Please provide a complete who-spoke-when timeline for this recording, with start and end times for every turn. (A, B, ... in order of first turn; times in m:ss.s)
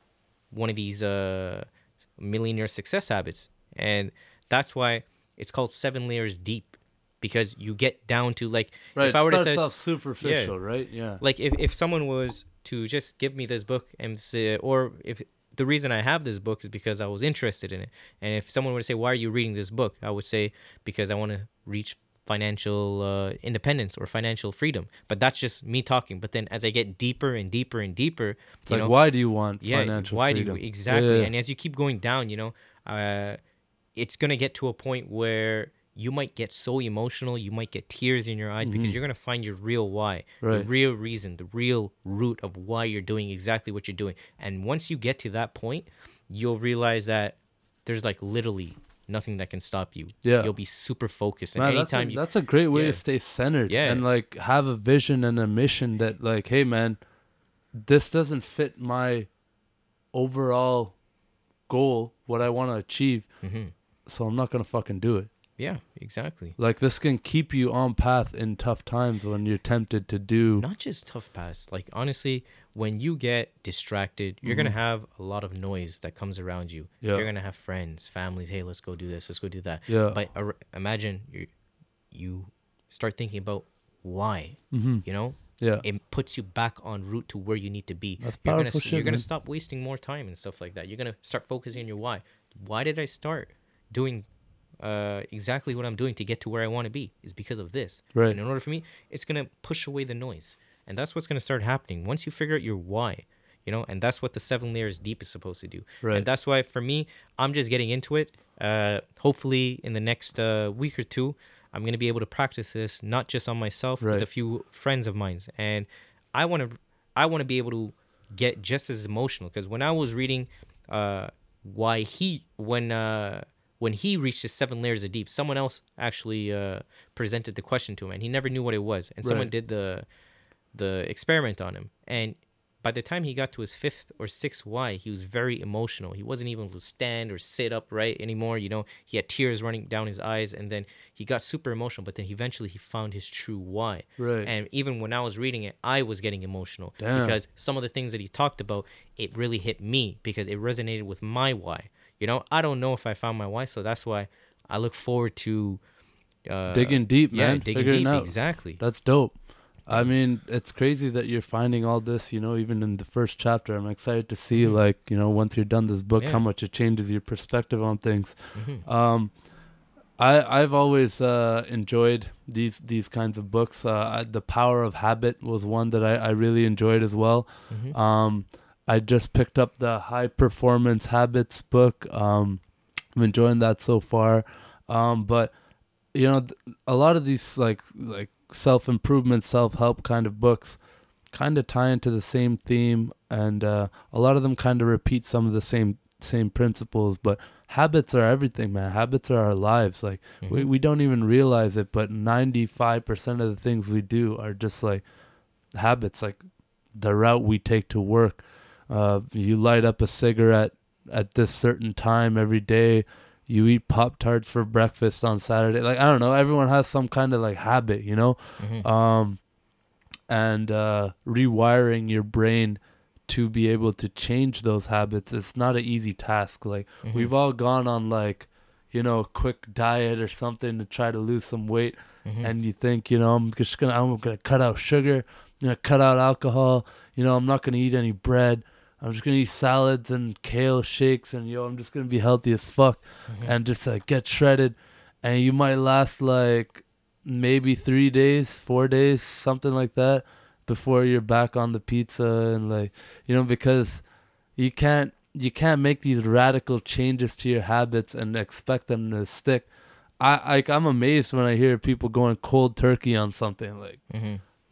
0:00.5-0:10.6 A
0:09.0-0:11.2 B
0:11.2-0:29.0 A
0:28.6-0:31.3 B
0:29.6-0:33.4 A
0:34.0-0:53.0 A
0:38.6-0:39.0 B
0:40.4-0:40.7 B
0:50.2-0:50.5 B
0:51.6-0:57.0 B
0:53.7-0:54.0 A
0:57.7-0:59.3 B
1:00.1-1:01.0 B
1:01.7-1:03.3 B
1:03.4-1:03.7 A
1:04.1-1:05.3 B
1:05.6-1:06.6 A
1:06.6-1:10.7 B
1:10.6-1:21.5 A
1:14.4-1:14.7 B
1:17.0-1:17.3 B
1:19.9-1:20.2 B
1:22.1-1:34.3 A
1:24.7-1:25.8 B
1:28.2-1:29.3 B
1:34.8-2:10.0 A
1:54.0-1:54.3 B
2:09.2-2:09.5 B
2:10.7-2:35.8 A
2:24.2-2:24.5 B
2:27.0-2:27.4 B
2:36.4-2:38.8 A
2:36.7-2:49.4 B
2:39.9-2:40.1 A
2:44.5-2:44.8 A
2:46.2-2:46.4 A
2:48.6-2:48.8 A
2:50.2-3:05.6 B
2:57.7-2:58.0 A
3:06.1-3:25.1 B
3:20.4-3:20.7 A
3:25.7-3:39.4 B
3:38.6-3:38.9 A
3:40.3-4:24.1 B
3:47.0-3:47.3 A
3:52.2-3:52.5 A
4:03.3-4:03.5 A
4:24.1-4:24.4 A